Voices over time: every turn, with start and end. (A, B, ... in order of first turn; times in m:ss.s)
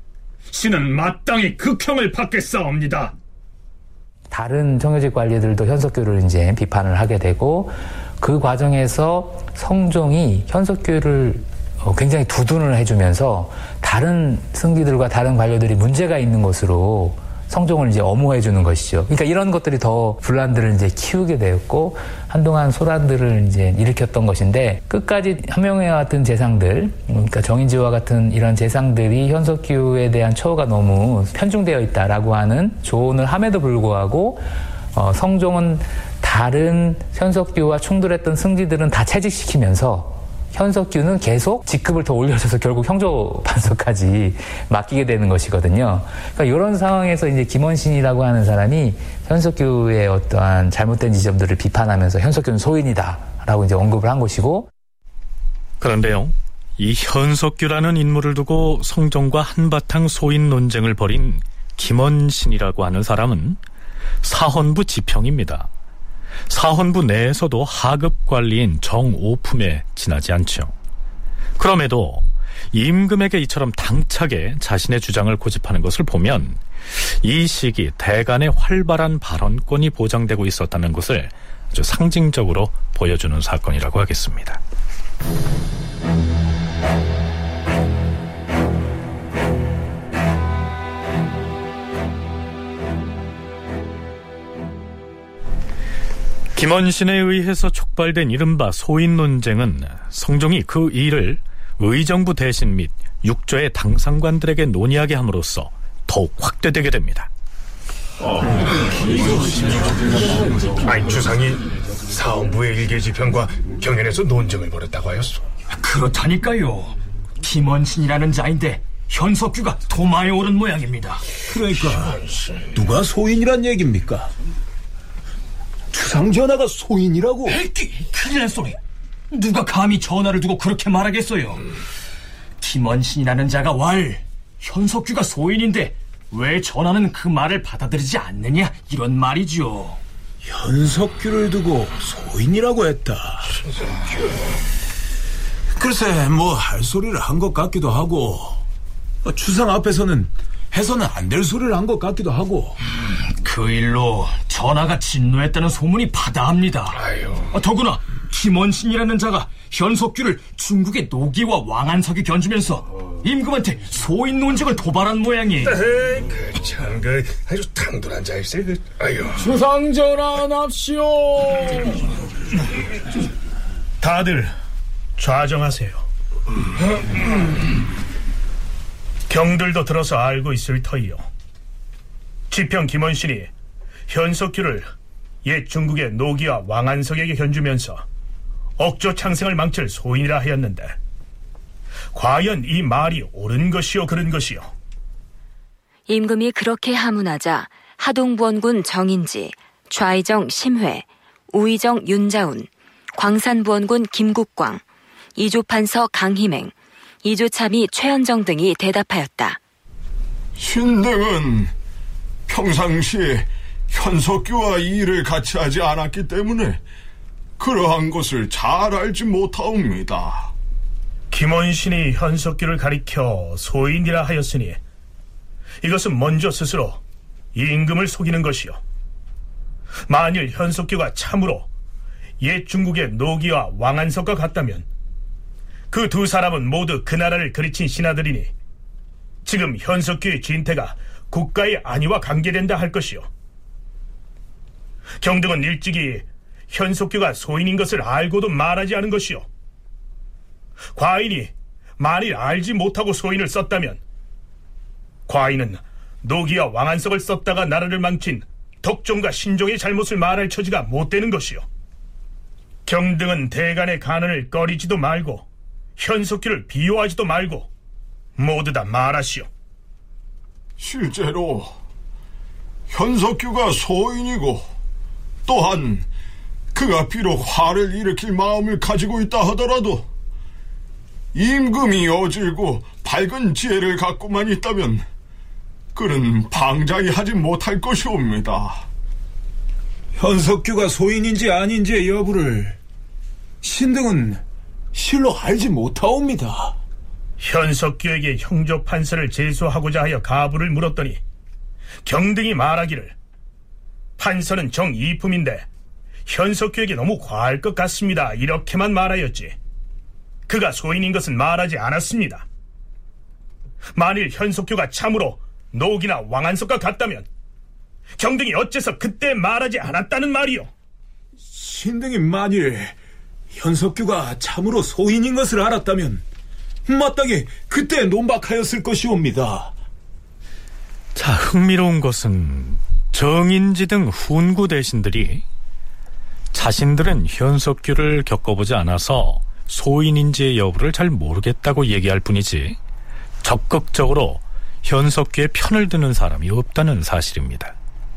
0:00.5-0:03.2 A
0:04.3-0:54.7 B
0:55.8-1:03.6 C
1:04.2-1:05.7 C
1:06.5-1:10.7 C
1:11.6-1:24.6 C
1:36.6-1:47.3 C
1:50.9-1:51.2 A
1:50.9-1:51.6 D
1:52.1-1:55.4 D
1:53.7-1:54.5 A
1:55.7-2:01.2 E
2:01.6-2:02.1 F
2:02.8-2:04.3 F
2:05.9-2:07.6 F
2:07.5-2:08.8 E
2:09.3-2:11.6 E
2:12.6-2:20.0 E
2:20.5-2:23.4 F
2:25.8-2:28.6 F
2:29.2-2:32.8 F
2:33.4-2:45.8 E
2:45.9-2:49.4 D
2:54.0-2:54.5 G
2:55.2-2:56.0 G
2:59.3-3:01.2 G
3:02.5-3:03.5 G
3:04.1-3:04.9 G
3:05.4-3:08.0 G
3:08.8-3:11.0 G
3:12.1-3:14.7 G
3:16.1-3:24.8 H
3:25.4-3:26.7 H
3:27.2-3:29.6 H
3:30.6-3:31.7 I
3:32.5-3:36.8 I
3:37.6-3:40.5 I
3:41.3-3:44.8 G
3:45.8-3:47.0 G
3:47.5-3:48.8 G
3:50.1-3:51.7 G
3:52.4-3:54.9 G
3:55.9-3:58.5 G
3:59.4-4:03.3 G
4:05.2-4:09.5 G
4:11.0-4:14.0 G
4:15.3-4:21.6 G
4:22.9-4:25.5 G
4:26.0-4:27.7 G
4:28.4-4:29.5 G
4:30.8-4:31.7 I
4:32.9-4:34.7 I
4:35.4-4:36.1 I
4:36.7-4:40.1 I
4:41.3-4:45.1 I
4:46.0-4:48.9 I
4:50.5-4:52.4 F
4:53.7-4:54.3 A
4:55.0-4:56.6 F
4:57.4-5:01.2 G
5:02.0-5:03.2 G
5:04.2-5:05.7 G
5:06.3-5:09.6 G
5:10.5-5:12.4 G
5:14.0-5:17.3 G
5:18.2-5:20.7 G
5:21.6-5:22.9 A
5:21.6-5:22.6 F
5:23.6-5:26.2 F
5:26.9-5:29.7 F
5:31.2-5:35.4 C
5:36.5-5:42.8 C
5:43.4-5:47.7 C